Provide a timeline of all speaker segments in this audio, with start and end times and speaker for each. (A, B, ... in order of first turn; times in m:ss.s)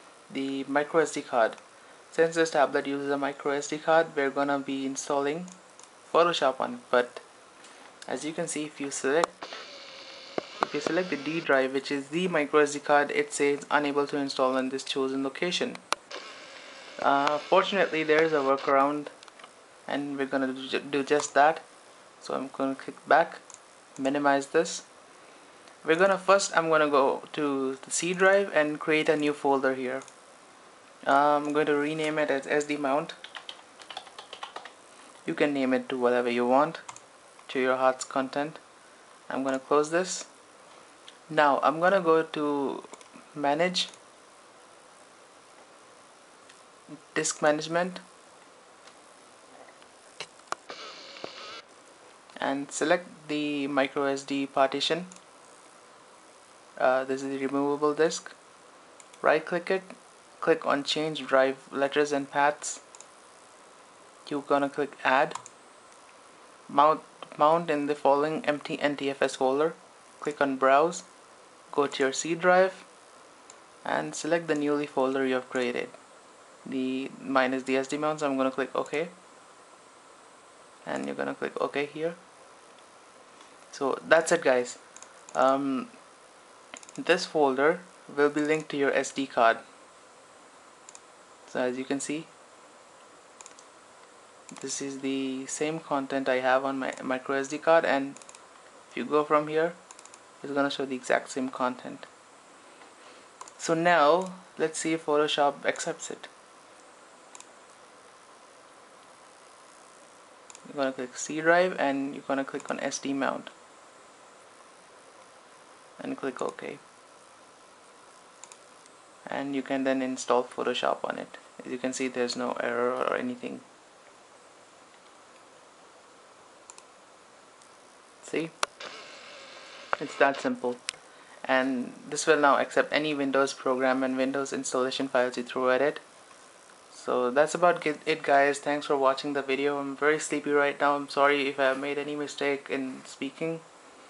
0:00.3-0:01.6 A
0:02.1-0:05.6 A
0:06.1-0:07.2 A
0:08.1-0:09.6 A
0:10.6-0:15.8 A
0:17.0-0:19.1 A
0:19.9-0:21.6 A
0:22.2-0:23.4 A
0:24.0-0:24.9 A
0:25.8-0:30.0 A
0:31.1-0:33.2 A
0:35.3-0:36.8 A
0:37.5-0:38.6 A
0:39.3-0:40.3 A
0:41.3-0:43.9 A
0:47.1-0:48.0 A
0:52.4-0:55.2 A
0:56.8-0:58.4 A
0:59.2-1:02.8 A
1:04.3-1:05.4 A
1:06.7-1:11.1 A
1:11.7-1:12.9 A
1:13.8-1:16.0 A
1:16.6-1:19.1 A
1:20.9-1:22.2 A
1:23.7-1:24.8 A
1:25.3-1:25.9 A
1:27.0-1:29.6 A
1:31.5-1:32.3 A
1:34.5-1:38.2 A
1:38.9-1:39.8 A
1:40.4-1:42.1 A
1:43.6-1:46.3 A
1:50.7-1:53.5 A
1:56.0-1:56.8 A
1:59.3-2:03.7 A
2:08.2-2:08.5 A
2:10.0-2:10.8 A
2:11.4-2:16.0 A
2:16.9-2:23.6 A